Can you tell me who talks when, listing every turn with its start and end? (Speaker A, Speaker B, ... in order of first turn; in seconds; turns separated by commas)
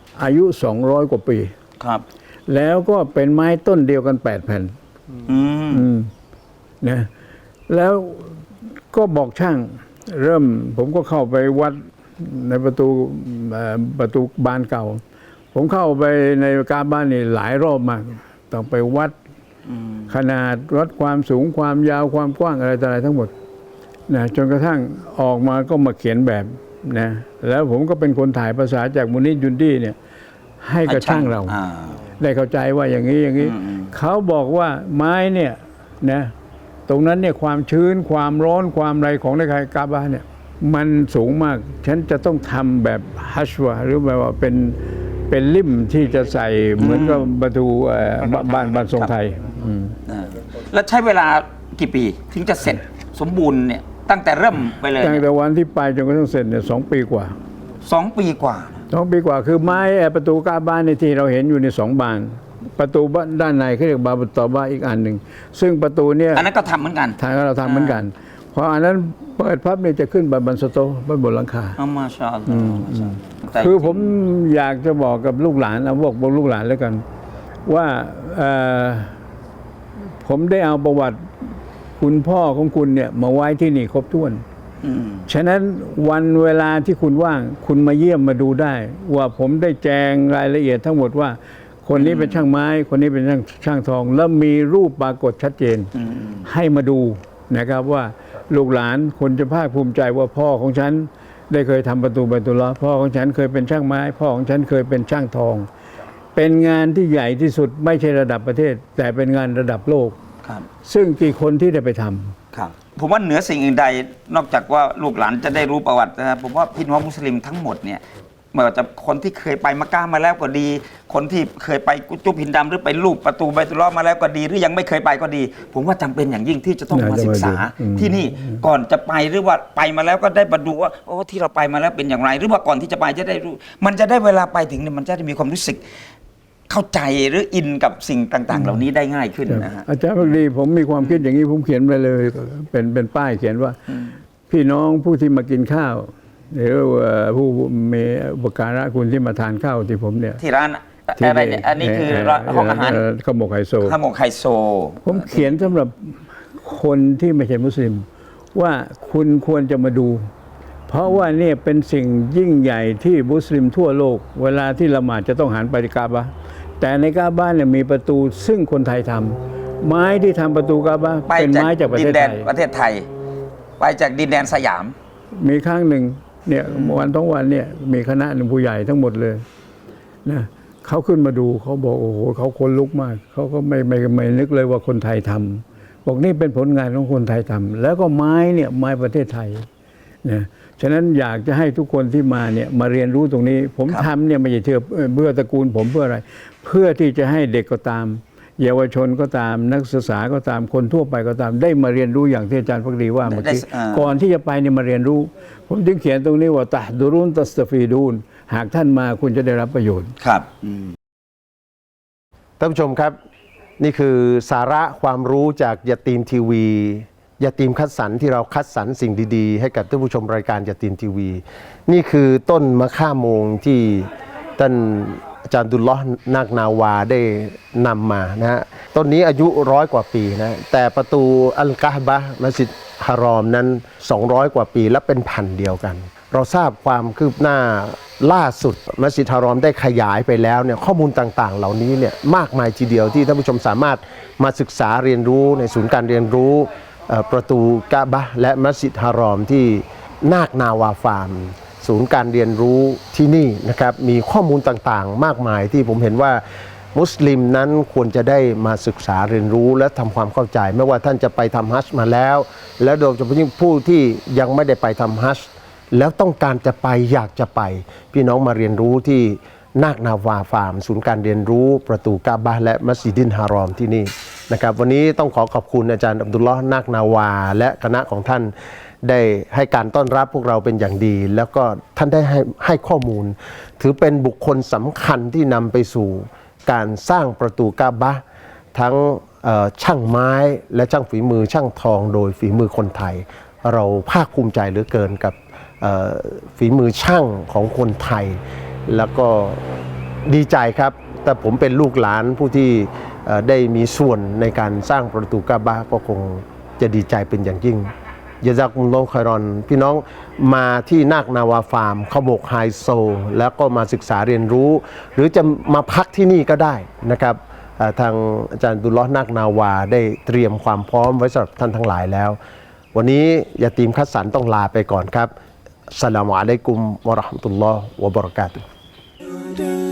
Speaker A: 0.2-1.5, Speaker A: 2.5-4.7, Speaker B: 5.2-5.8, Speaker A: 5.7-6.1, Speaker A: 6.8-7.1, Speaker A: 7.7-15.0, Speaker A: 15.5-19.1, Speaker B: 19.7-20.1, Speaker A: 20.1-23.3, Speaker A: 24.1-29.9, Speaker A: 30.6-31.6, Speaker B: 30.9-32.0, Speaker A: 32.2-36.3, Speaker B: 33.4-33.9, Speaker A: 36.9-50.0, Speaker B: 46.8-47.3, Speaker B: 48.2-49.1, Speaker B: 50.1-55.2, Speaker A: 55.0-57.4, Speaker B: 57.8-58.9, Speaker A: 58.9-66.5, Speaker B: 66.3-68.0, Speaker A: 67.2-71.8, Speaker B: 71.8-74.1, Speaker A: 72.5-77.0, Speaker A: 77.7-79.2, Speaker A: 80.2-84.4, Speaker B: 84.8-85.3, Speaker A: 85.3-95.9, Speaker B: 91.9-92.5, Speaker B: 95.9-96.4, Speaker A: 96.4-105.7, Speaker A: 106.3-110.2, Speaker A: 110.8-112.3, Speaker B: 112.5-118.0, Speaker B: 118.5-135.8, Speaker A: 126.9-128.6, Speaker B: 136.7-140.3, Speaker A: 138.5-138.8, Speaker A: 139.5-143.8, Speaker B: 143.9-144.1, Speaker A: 144.5-150.4, Speaker B: 150.4-153.0, Speaker A: 151.2-154.0, Speaker B: 153.8-155.7, Speaker A: 155.0-160.3, Speaker A: 160.9-172.5, Speaker B: 171.3-173.1, Speaker B: 173.8-174.9, Speaker A: 175.4-179.4, Speaker B: 176.7-177.1, Speaker A: 180.2-189.7, Speaker A: 190.2-210.1, Speaker B: 203.2-204.1, Speaker B: 210.2-210.9, Speaker C: 212.6-213.2, Speaker C: 213.8-256.4, Speaker C: 256.9-278.5, Speaker C: 279.0-288.2, Speaker C: 288.7-299.6, Speaker C: 300.2-307.9, Speaker C: 308.4-322.4, Speaker C: 322.9-325.3, Speaker C: 325.9-328.6